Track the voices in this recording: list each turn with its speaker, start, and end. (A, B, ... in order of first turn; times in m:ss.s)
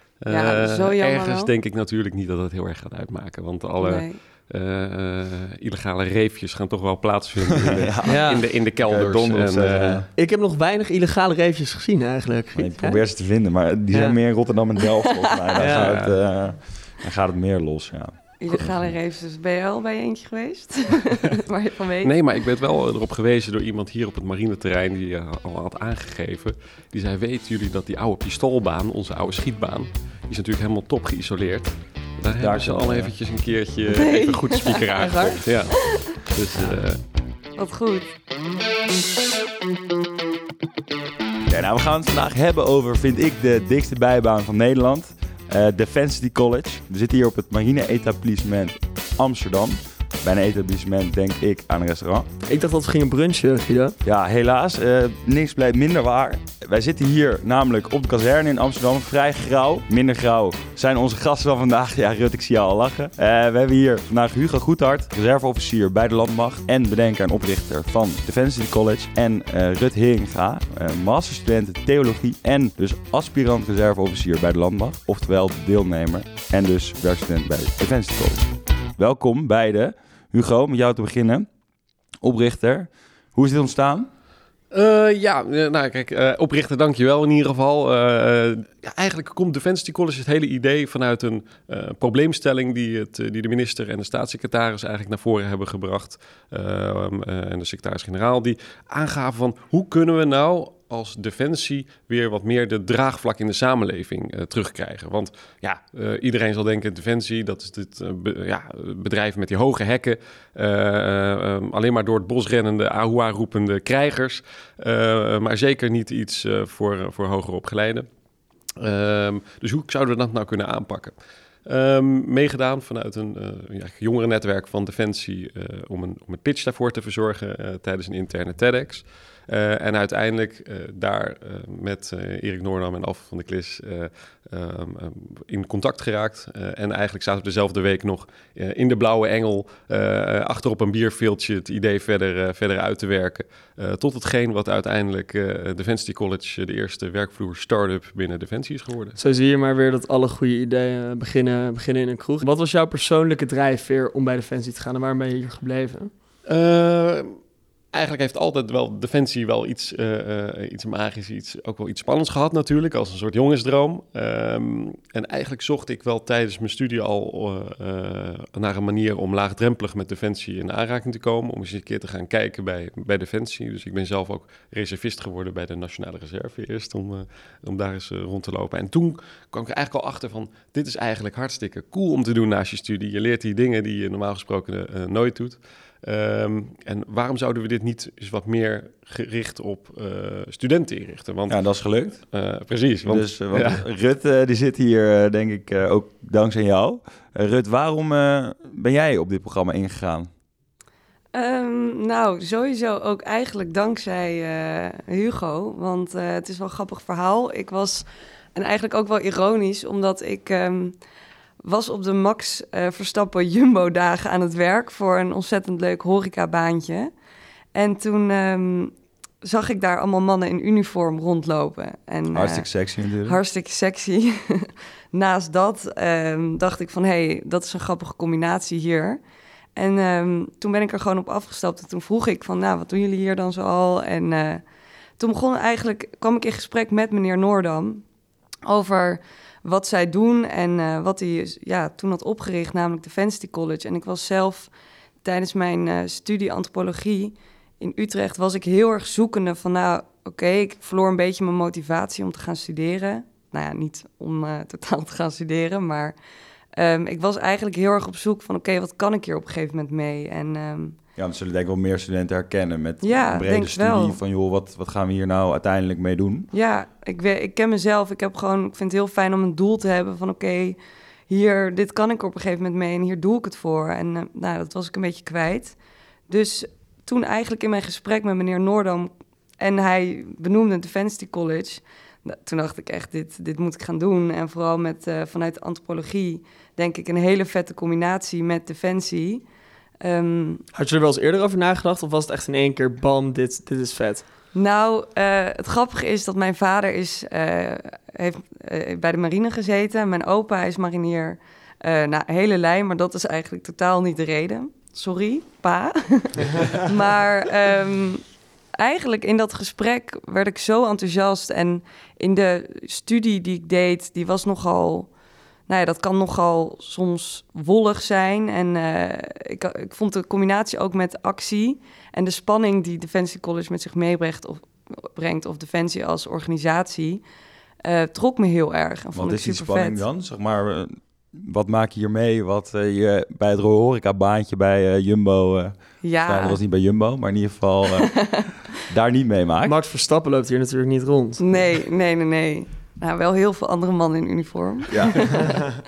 0:00.2-0:10.0 A
0:00.3-0:01.5 B
0:03.8-0:04.2 B
0:07.7-0:10.1 C
0:08.0-0:08.4 D
0:10.2-0:12.7 D
0:12.5-0:18.9 C
0:13.9-0:14.2 D
0:15.6-0:16.0 D
0:15.7-0:16.2 A
0:18.4-0:22.3 B
0:22.0-0:37.0 A
0:32.4-0:33.1 C
0:33.9-0:36.0 B
0:37.6-0:38.1 B
0:41.4-0:52.3 C
0:52.5-0:54.0 D
0:54.0-1:21.5 C
1:22.2-1:24.1 C
1:24.7-1:58.1 A
1:58.8-2:01.1 A
2:01.6-2:29.2 A
2:29.2-2:36.1 D
2:36.5-2:37.4 A
2:37.9-3:11.6 A
3:11.5-3:12.2 C
3:12.1-3:13.8 A
3:13.1-3:20.3 C
3:21.3-3:31.0 B
3:31.6-3:37.1 B
3:37.7-3:42.7 B
3:42.3-3:43.4 C
3:43.2-3:49.2 B
3:49.8-3:54.6 B
3:55.2-3:58.0 B
3:58.6-4:04.7 B
4:05.2-4:16.2 B
4:16.8-4:21.0 B
4:21.2-4:26.5 C
4:23.0-4:24.2 B
4:26.5-4:30.8 B
4:31.3-4:35.8 B
4:36.3-4:49.4 B
4:50.0-4:50.6 B
4:50.7-4:54.2 D
4:54.5-5:08.2 B
5:08.8-5:15.1 B
5:15.7-5:27.2 B
5:27.8-5:30.0 B
5:29.2-5:38.1 C
5:36.0-5:36.6 B
5:38.0-5:38.5 B
5:38.9-5:39.8 C
5:39.6-5:41.5 D
5:41.4-5:45.8 B
5:44.9-5:45.3 C